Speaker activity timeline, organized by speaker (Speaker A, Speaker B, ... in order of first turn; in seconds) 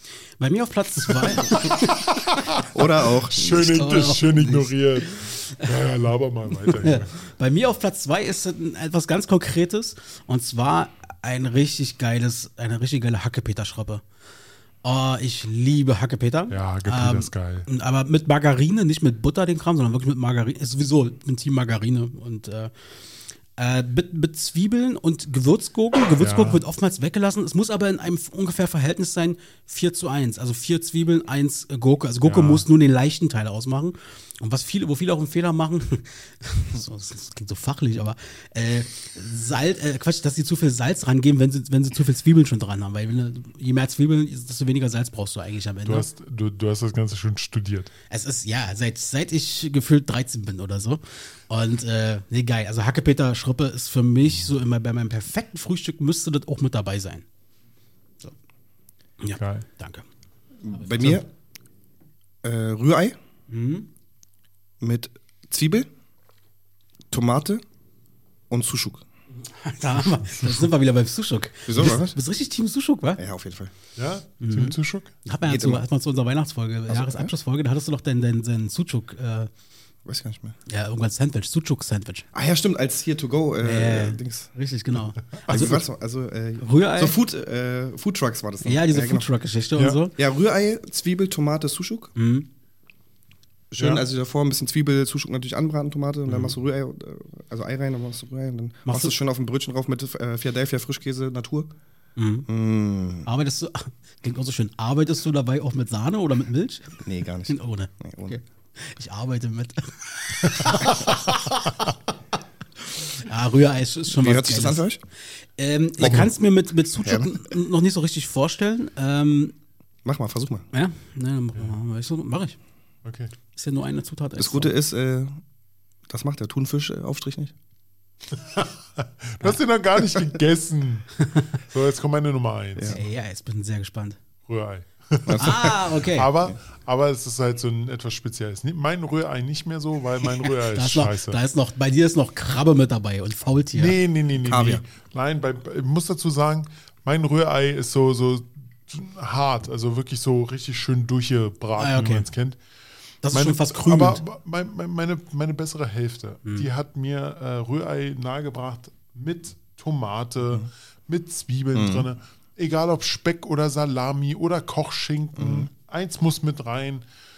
Speaker A: 0.4-2.0, 3.7-4.8, 6.7-14.0, 14.8-22.7, 23.6-46.1, 48.1-57.2, 59.2-60.0, 63.5-63.9, 69.3-73.2, 74.4-79.5, 80.7-82.2, 83.6-85.8, 86.6-87.2, 88.6-90.1, 92.2-92.5, 98.8-99.1, 102.2-102.5, 103.2-111.9, 113.2-114.8, 115.6-119.5, 120.7-122.6, 123.5-124.7, 132.9-134.2, 135.4-136.3, 140.4-144.0, 151.8-152.2, 153.2-154.2
Speaker B: 1.0-7.2, 16.5-17.7, 26.2-26.6, 32.2-32.6, 45.8-47.9, 59.4-59.6, 61.0-61.2, 70.0-70.7, 74.0-75.1, 93.8-94.0, 123.0-123.3, 128.3-133.0, 134.5-141.4, 143.7-152.6, 153.3-167.0
Speaker C: 2.7-3.9, 60.6-61.3, 62.4-63.1, 64.8-65.9, 67.1-67.6, 68.5-69.0, 71.7-72.1, 73.2-73.7, 75.5-75.8, 76.9-77.3, 80.0-80.5, 82.3-84.5, 85.5-89.3, 90.2-92.1, 93.7-101.7, 102.5-103.2, 107.0-108.4, 114.2-115.0, 116.0-116.3, 117.0-117.3, 120.0-120.7, 124.4-125.4, 126.1-127.5, 135.2-135.9, 144.4-144.8, 161.7-162.1, 165.3-165.7